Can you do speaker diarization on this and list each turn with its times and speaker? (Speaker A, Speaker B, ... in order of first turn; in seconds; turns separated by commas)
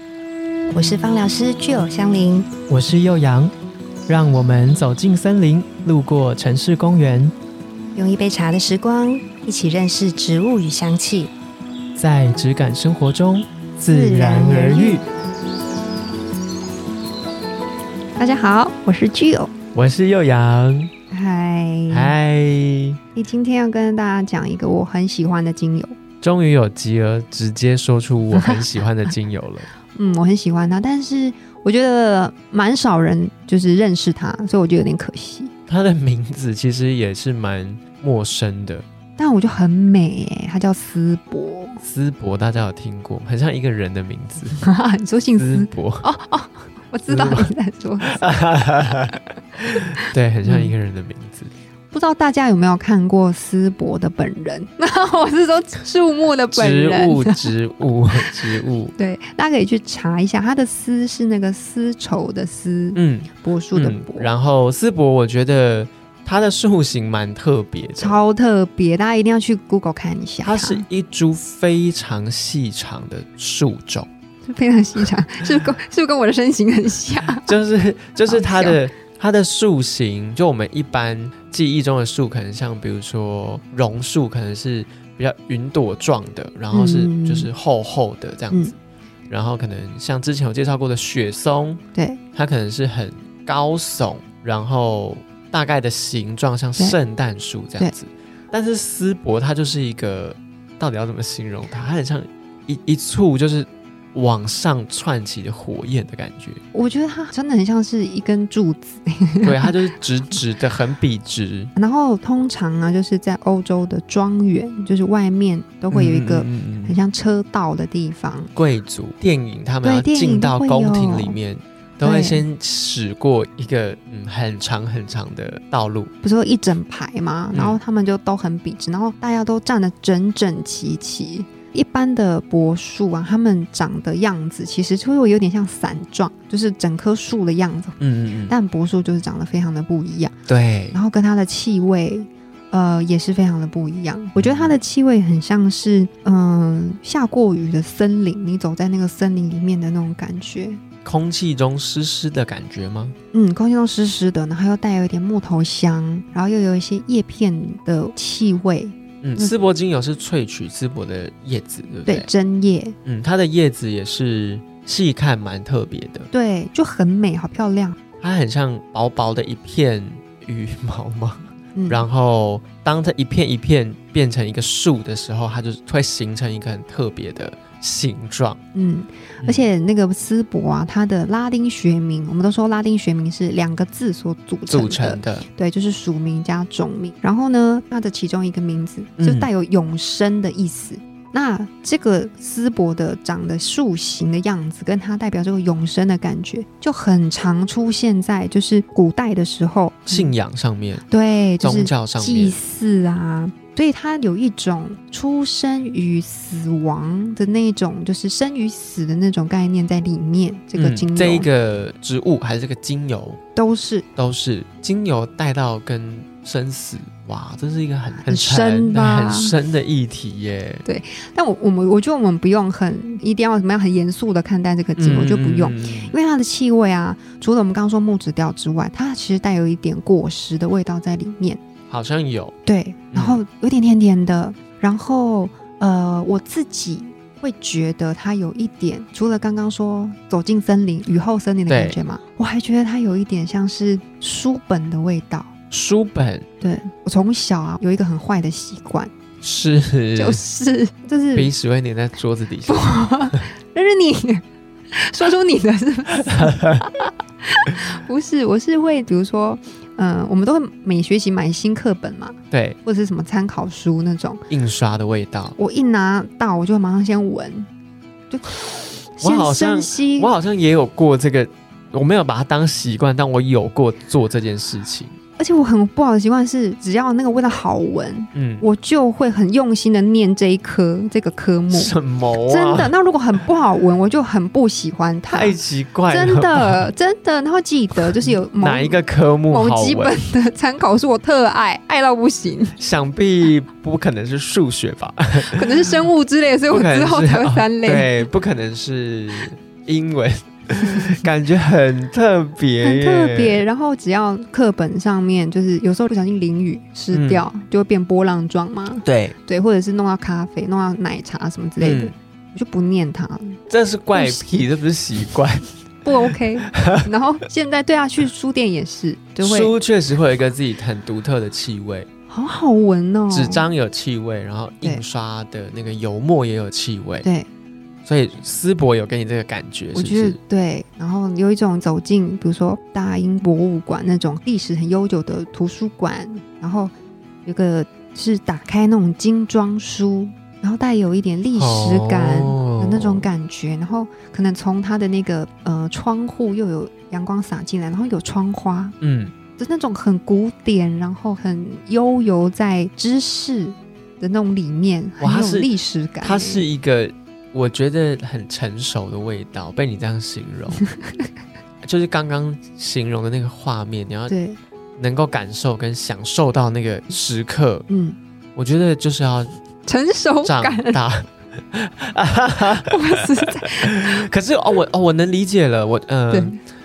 Speaker A: 0.7-2.5, Speaker B: 2.7-3.5, Speaker B: 4.1-7.3, Speaker A: 7.9-11.3, Speaker B: 11.9-15.0, Speaker A: 13.9-15.0, Speaker A: 18.2-19.5, Speaker B: 19.7-20.9, Speaker A: 21.1-22.1, Speaker B: 21.9-23.0, Speaker A: 23.1-26.0, Speaker B: 26.2-29.7, Speaker A: 29.9-35.5, Speaker B: 35.7-38.8, Speaker A: 39.2-41.8, Speaker B: 41.8-44.6, Speaker A: 44.6-48.1, Speaker B: 45.4-46.0, Speaker B: 47.1-47.5, Speaker B: 48.0-49.2, Speaker B: 50.0-51.5, Speaker A: 50.4-50.7, Speaker A: 51.9-57.5, Speaker B: 56.5-58.9, Speaker A: 59.0-64.3, Speaker B: 62.9-68.2, Speaker A: 68.0-70.8, Speaker B: 70.4-74.1, Speaker A: 74.4-77.5, Speaker B: 77.4-88.8, Speaker A: 78.3-78.8, Speaker A: 86.7-87.5, Speaker B: 89.3-91.8, Speaker A: 91.9-92.2, Speaker B: 92.3-106.6, Speaker A: 106.7-109.7, Speaker B: 109.4-111.7, Speaker A: 111.8-118.5, Speaker B: 115.9-117.0, Speaker B: 118.5-126.1, Speaker A: 119.8-121.4, Speaker A: 122.0-122.4, Speaker A: 126.2-138.0, Speaker B: 127.5-127.8, Speaker B: 138.0-138.5, Speaker A: 138.5-140.3, Speaker B: 140.5-141.0, Speaker A: 140.9-150.8, Speaker B: 144.3-144.7, Speaker B: 151.0-153.1, Speaker A: 153.3-159.5, Speaker B: 159.2-162.3, Speaker A: 162.1-162.9, Speaker B: 163.0-166.3, Speaker A: 166.3-168.0, Speaker B: 168.2-178.6, Speaker A: 171.7-172.1, Speaker A: 178.7-200.3, Speaker B: 179.4-179.7, Speaker B: 184.7-185.4, Speaker B: 189.2-189.5, Speaker B: 200.1-201.0, Speaker A: 201.1-211.5, Speaker B: 201.6-202.6, Speaker B: 210.7-213.4, Speaker A: 213.6-214.1, Speaker B: 214.2-220.8, Speaker A: 218.2-219.5, Speaker A: 220.8-231.6, Speaker B: 225.0-226.2, Speaker B: 231.9-232.5, Speaker A: 232.7-245.5, Speaker B: 233.1-233.4, Speaker B: 241.7-242.0, Speaker B: 245.7-246.4, Speaker A: 246.6-249.1, Speaker B: 249.4-250.4, Speaker A: 250.2-251.5, Speaker B: 251.3-253.4, Speaker A: 252.7-264.4, Speaker B: 256.4-256.8, Speaker B: 262.5-262.8, Speaker B: 264.5-265.6, Speaker A: 265.6-267.7, Speaker A: 268.3-270.3, Speaker B: 269.2-275.1, Speaker A: 275.4-281.9, Speaker B: 278.3-278.6, Speaker B: 281.7-282.9, Speaker A: 282.5-285.6, Speaker B: 285.3-286.9, Speaker A: 286.1-289.0, Speaker B: 288.6-290.1, Speaker A: 289.5-292.8, Speaker B: 292.8-295.7, Speaker A: 295.4-298.2, Speaker B: 296.7-303.6, Speaker A: 300.7-301.2, Speaker A: 302.8-313.6, Speaker B: 307.1-307.4, Speaker B: 309.0-309.4, Speaker B: 311.8-312.1, Speaker B: 313.7-315.7, Speaker A: 314.1-314.5, Speaker A: 316.0-319.7, Speaker B: 316.7-317.1, Speaker B: 319.4-322.1, Speaker A: 322.3-323.6, Speaker B: 323.3-327.2, Speaker A: 327.2-327.5, Speaker B: 328.0-330.4, Speaker A: 329.9-336.9, Speaker A: 337.4-348.9, Speaker B: 341.5-343.3, Speaker B: 349.0-349.3, Speaker A: 349.6-356.6, Speaker B: 355.2-355.7, Speaker B: 356.2-360.8, Speaker B: 361.8-364.3, Speaker A: 364.3-364.6, Speaker B: 365.0-367.9, Speaker A: 367.9-368.2, Speaker B: 368.6-369.6, Speaker A: 369.8-371.0, Speaker B: 370.4-373.2, Speaker A: 372.9-374.2, Speaker B: 373.8-376.6, Speaker A: 376.3-376.6